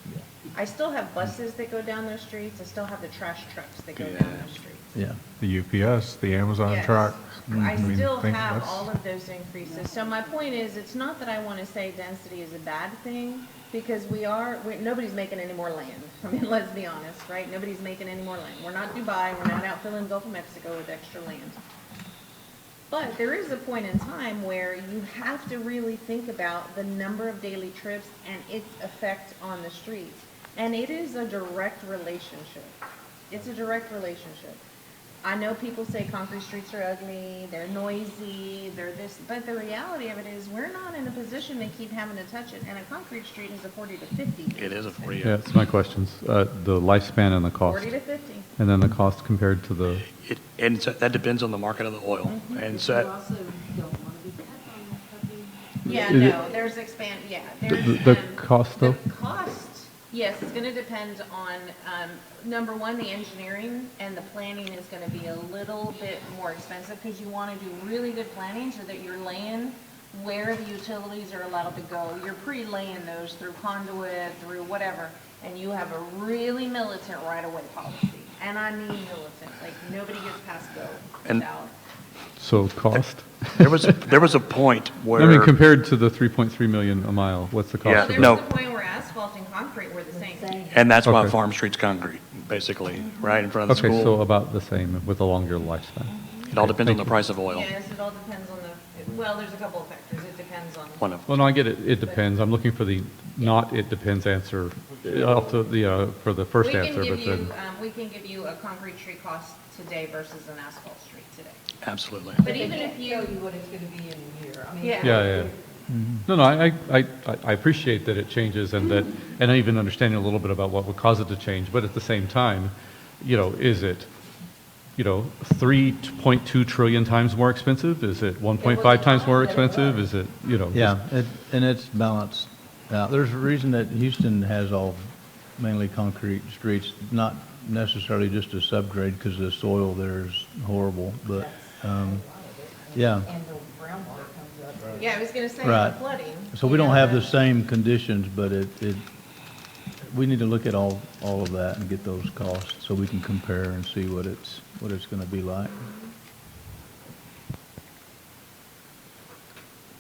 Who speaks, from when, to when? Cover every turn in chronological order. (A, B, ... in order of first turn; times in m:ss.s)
0:00.5-0:04.9 A
0:04.0-0:04.5 B
0:05.0-0:05.2 C
0:05.4-0:08.9 D
0:06.6-0:21.6 A
0:22.9-0:32.8 A
0:33.3-0:34.6 A
0:35.2-0:45.2 A
0:44.6-0:45.4 B
0:45.2-0:47.9 E
0:47.6-0:48.5 A
0:48.6-0:50.0 E
0:50.2-0:53.1 B
0:52.2-0:52.6 A
0:52.7-0:55.9 F
0:55.8-1:21.7 A
0:56.0-0:56.4 E
0:57.7-0:59.0 E
1:22.4-1:23.9 E
1:23.6-1:25.5 B
1:25.2-1:28.4 E
1:27.8-1:28.4 B
1:27.9-1:30.8 A
1:30.1-1:30.8 F
1:30.7-1:34.2 B
1:31.0-1:31.4 E
1:33.7-1:37.1 E
1:36.1-1:36.5 A
1:36.5-1:37.7 B
1:37.5-1:41.0 A
1:41.0-1:41.4 B
1:41.3-1:47.5 E
1:46.6-1:51.6 A
1:51.8-1:52.4 B
1:52.4-1:55.6 F
1:52.4-1:53.4 A
1:54.8-1:55.3 A
1:55.0-1:55.5 E
1:55.9-1:56.2 C
1:56.3-2:04.1 E
2:05.0-2:11.0 E
2:08.6-2:10.0 F
2:10.7-2:22.2 C
2:21.3-2:25.2 F
2:22.9-2:23.3 C
2:25.0-2:27.3 A
2:25.6-2:26.0 C
2:26.5-2:29.0 C
2:30.1-2:35.9 C